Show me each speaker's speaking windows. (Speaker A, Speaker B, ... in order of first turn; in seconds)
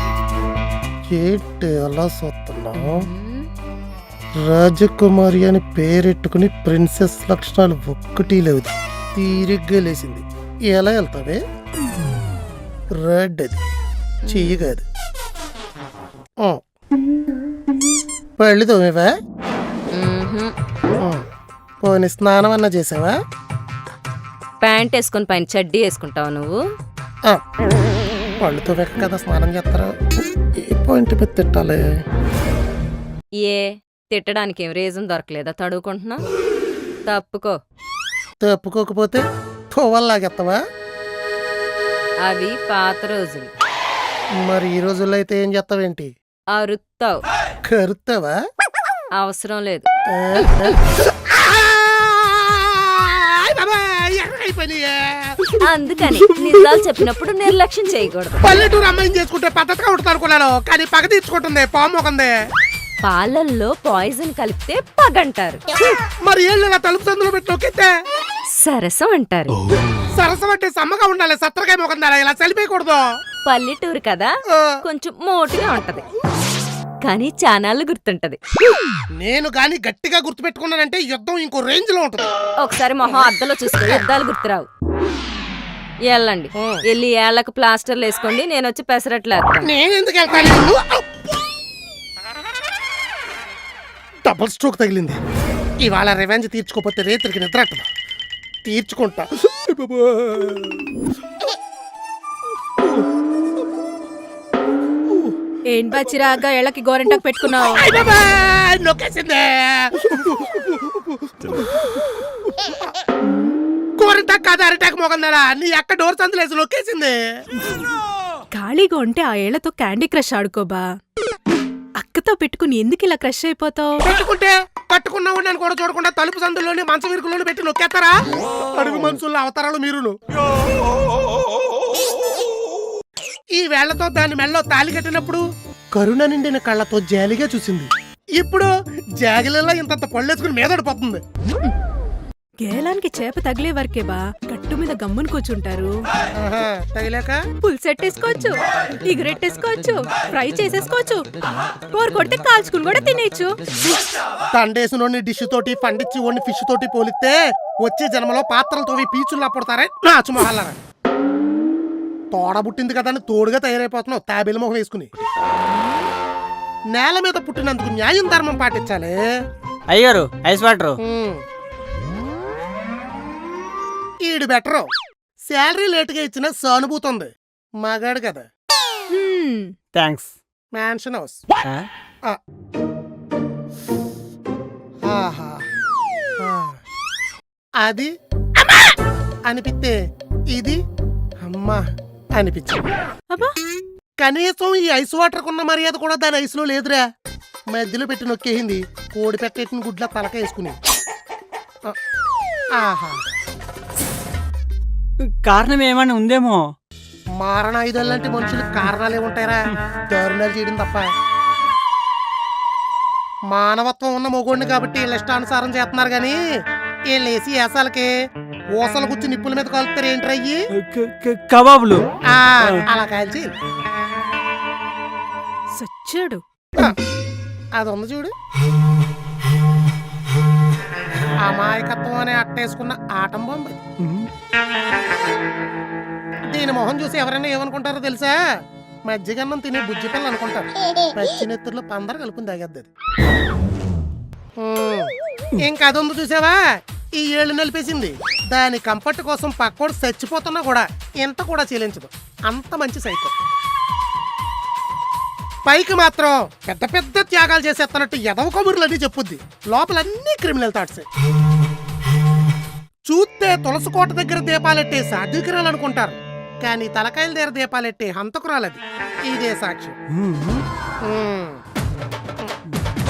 Speaker A: 1.1-3.0, 4.4-11.4, 13.0-13.6, 14.3-14.8, 18.4-19.1, 21.8-23.1, 28.4-29.9, 30.6-31.8, 38.4-40.6, 44.4-46.1, 47.7-48.4, 50.1-55.5, 58.4-62.3, 66.2-67.9, 70.1-73.0, 74.5-74.8, 79.2-82.3, 86.6-86.8, 89.6-91.0, 94.2-95.2, 95.8-97.8, 98.7-100.8, 107.4-111.8, 114.0-117.2, 124.0-128.1, 128.7-130.2, 133.6-135.4, 135.9-141.2, 146.4-147.4, 154.5-160.8, 162.3-165.2, 166.9-169.2, 171.0-171.4, 174.2-174.9, 175.5-177.3, 177.8-178.5, 180.7-181.4, 185.1-185.6, 186.4-186.8, 187.8-188.9, 189.5-189.9, 190.5-190.8, 191.5-191.8, 192.4-192.8, 194.2-197.0, 197.7-200.8, 202.8-203.2, 207.4-211.1, 213.5-216.4, 217.1-218.1, 218.8-220.6, 222.3-223.5, 227.8-228.3, 231.4-233.8, 236.5-238.3, 239.1-242.9, 244.6-246.6, 247.2-253.3, 255.7-261.0, 263.1-269.9, 271.1-271.6
Speaker B: 2.8-3.5, 14.2-14.5, 19.9-20.5, 24.6-26.6, 33.4-36.2, 37.1-37.5, 42.2-43.5, 46.5-47.2, 49.2-49.9, 55.6-58.4, 63.0-65.6, 68.6-69.5, 73.5-74.3, 74.8-76.0, 77.0-78.4, 82.6-84.7, 86.1-89.7
Speaker C: 105.7-107.8, 118.5-120.8, 122.0-124.0, 142.6-145.9, 147.6-151.3, 151.9-153.6, 179.1-179.7, 225.8-226.4
Speaker D: 169.9-170.9, 179.9-180.3, 205.2-206.7, 220.8-222.0, 234.0-234.3, 270.1-270.6